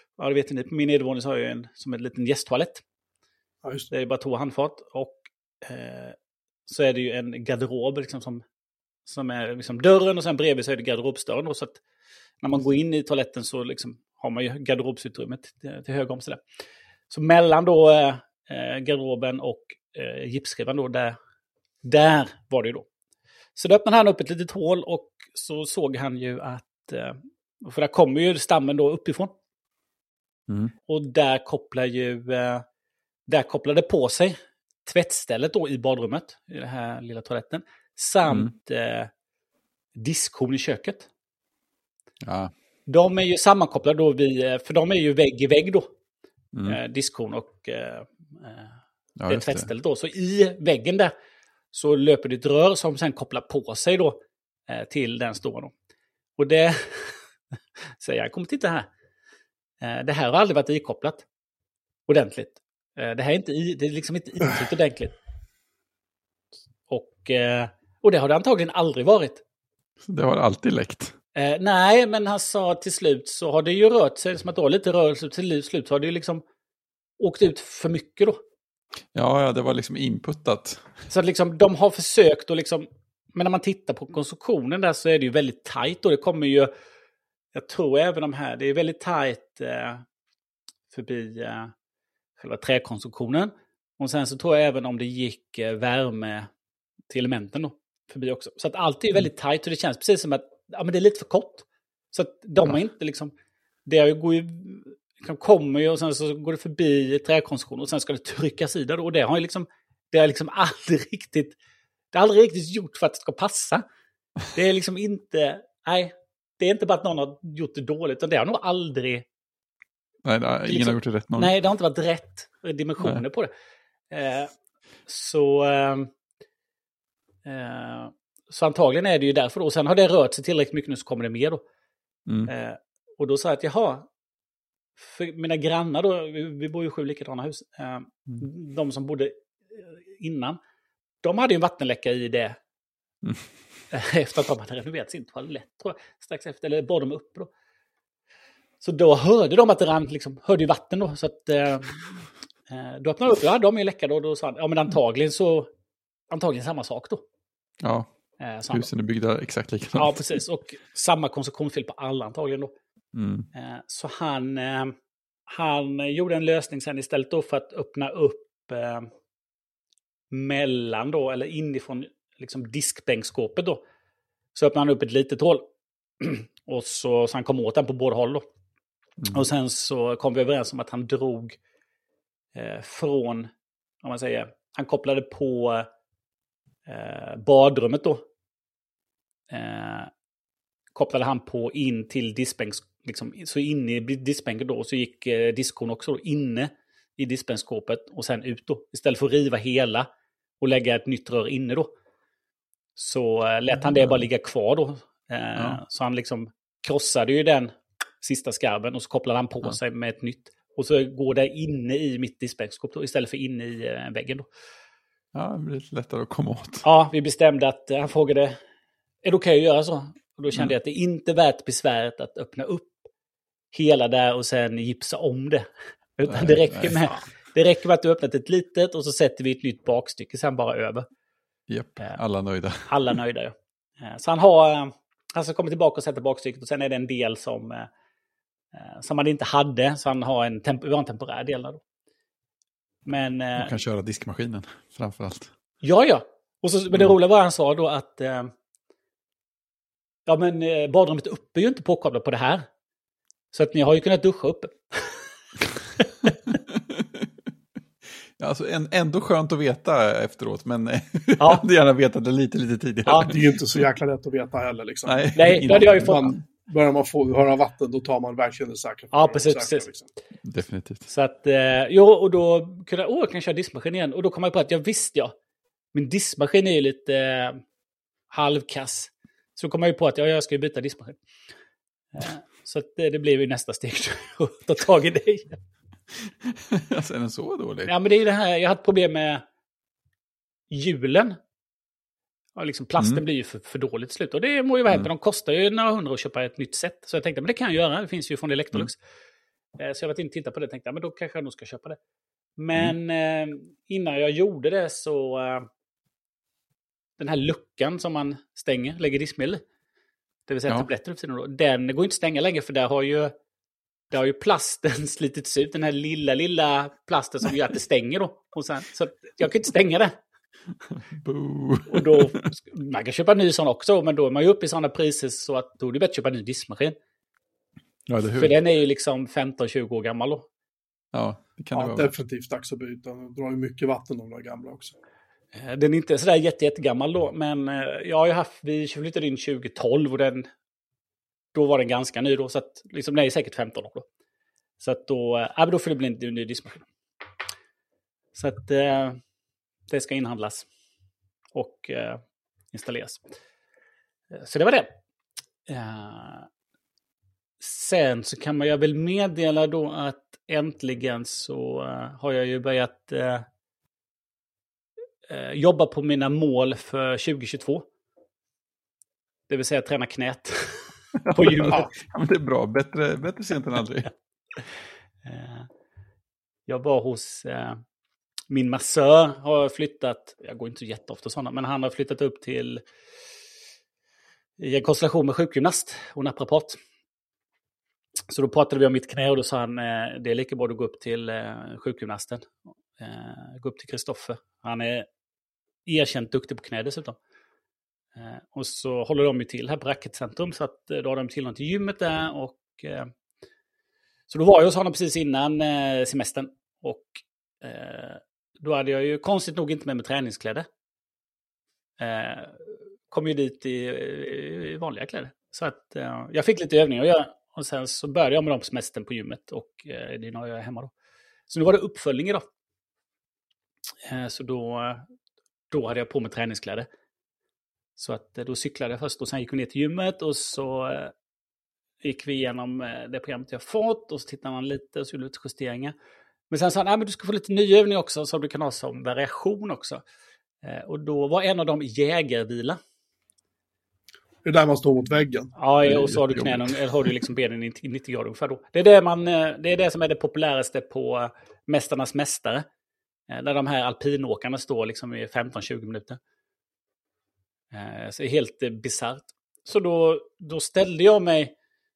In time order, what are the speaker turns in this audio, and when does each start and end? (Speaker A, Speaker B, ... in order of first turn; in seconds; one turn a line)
Speaker A: 0.2-2.8
Speaker B: 3.6-3.9
Speaker A: 3.9-6.2
Speaker A: 6.7-8.4
Speaker A: 9.1-11.8
Speaker A: 12.4-16.4
Speaker A: 17.1-21.2
Speaker A: 21.8-22.8
Speaker A: 23.6-29.3
Speaker C: 30.5-30.7
Speaker A: 30.9-32.6
Speaker A: 33.3-39.1
Speaker C: 38.2-38.5
Speaker A: 39.9-41.1
Speaker C: 42.2-42.5
Speaker A: 42.9-45.9
Speaker C: 46.5-46.8
Speaker A: 46.7-48.7
Speaker C: 49.2-49.7
Speaker A: 49.3-51.1
Speaker A: 51.7-55.7
Speaker A: 56.4-57.2
Speaker A: 58.0-58.9
Speaker A: 59.8-61.2
Speaker A: 62.1-65.2
Speaker A: 66.9-69.4
Speaker C: 70.0-71.2
Speaker A: 71.3-76.4
Speaker A: 77.2-78.4
Speaker C: 79.1-80.9
Speaker A: 81.1-86.7
Speaker A: 87.5-90.0
Speaker A: 90.9-91.7
Speaker A: 92.4-96.5
Speaker A: 97.1-103.3
Speaker A: 103.8-111.5
Speaker A: 112.1-113.8
Speaker A: 114.5-119.2
Speaker C: 120.2-121.5
Speaker A: 120.7-123.5
Speaker A: 124.1-124.5
Speaker A: 125.1-126.1
Speaker A: 127.4-131.6
Speaker C: 132.2-132.5
Speaker A: 132.5-134.1
Speaker A: 135.0-140.6
Speaker A: 141.2-142.6
Speaker C: 143.2-143.5
Speaker A: 143.9-147.5
Speaker A: 148.8-155.7
Speaker A: 156.3-157.2
Speaker C: 157.8-158.1
Speaker A: 158.4-158.9
Speaker C: 158.7-160.4
Speaker A: 159.9-162.7
Speaker C: 163.1-163.5
Speaker A: 163.5-164.9
Speaker A: 165.5-169.1
Speaker A: 170.3-173.8
Speaker A: 174.5-175.7
Speaker A: 176.2-178.4
Speaker C: 179.2-179.4
Speaker A: 179.3-181.6
Speaker A: 182.5-183.5
Speaker A: 184.0-185.9
Speaker A: 186.8-188.2
Speaker A: 189.5-190.1
Speaker A: 190.9-200.1
Speaker A: 200.6-201.9
Speaker A: 203.0-214.5
Speaker C: 203.8-204.2
Speaker C: 215.3-216.8
Speaker A: 216.8-218.6
Speaker A: 219.2-223.0
Speaker A: 223.7-231.1
Speaker C: 226.3-227.1
Speaker C: 231.7-233.2
Speaker A: 232.9-237.9
Speaker A: 238.7-241.8
Speaker A: 243.1-243.8
Speaker C: 243.6-245.5
Speaker A: 245.8-248.5
Speaker A: 250.2-252.7
Speaker A: 253.5-255.2
Speaker A: 256.0-256.3
Speaker C: 256.5-257.3
Speaker C: 258.4-263.8
Speaker A: 261.4-261.6
Speaker B: 263.2-270.0
Speaker C: 265.1-266.4
Speaker A: 265.3-266.4
Speaker A: 269.1-269.9
Speaker C: 270.4-271.1
Speaker A: 271.1-275.3
Speaker A: 275.9-277.6
Speaker A: 278.3-281.2
Speaker A: 282.1-285.6
Speaker C: 286.2-287.9
Speaker A: 287.9-289.4
Speaker A: 290.7-291.4
Speaker A: 292.6-299.0
Speaker C: 293.0-293.2
Speaker A: 299.8-302.0
Speaker A: 302.6-305.7
Speaker A: 307.2-309.6
Speaker A: 310.5-313.3
Speaker A: 314.1-320.2
Speaker C: 320.9-322.5
Speaker A: 321.9-326.9
Speaker C: 328.1-328.6
Speaker A: 328.3-330.4
Speaker C: 331.1-332.1
Speaker B: 331.7-334.9
Speaker A: 335.5-340.5
Speaker A: 341.5-344.0
Speaker A: 344.8-346.9
Speaker A: 348.3-349.2
Speaker A: 349.9-350.6
Speaker A: 351.5-353.2
Speaker A: 354.3-354.9
Speaker A: 355.7-356.5
Speaker A: 357.6-363.4
Speaker A: 365.3-367.8
Speaker A: 369.5-371.9
Speaker C: 371.2-374.1
Speaker A: 375.2-375.7
Speaker A: 376.7-377.8
Speaker A: 378.5-382.8
Speaker A: 384.6-386.8
Speaker A: 388.3-395.1
Speaker A: 395.9-397.2
Speaker A: 398.1-403.1
Speaker A: 404.3-410.6
Speaker A: 412.0-420.9
Speaker A: 421.5-422.4
Speaker A: 424.0-425.1
Speaker A: 425.7-426.9
Speaker A: 428.0-431.1
Speaker A: 432.0-435.9
Speaker A: 436.5-440.0
Speaker A: 440.6-442.8
Speaker B: 444.4-445.5
Speaker A: 445.6-452.6
Speaker C: 445.8-447.2
Speaker A: 453.3-456.2
Speaker A: 457.7-461.5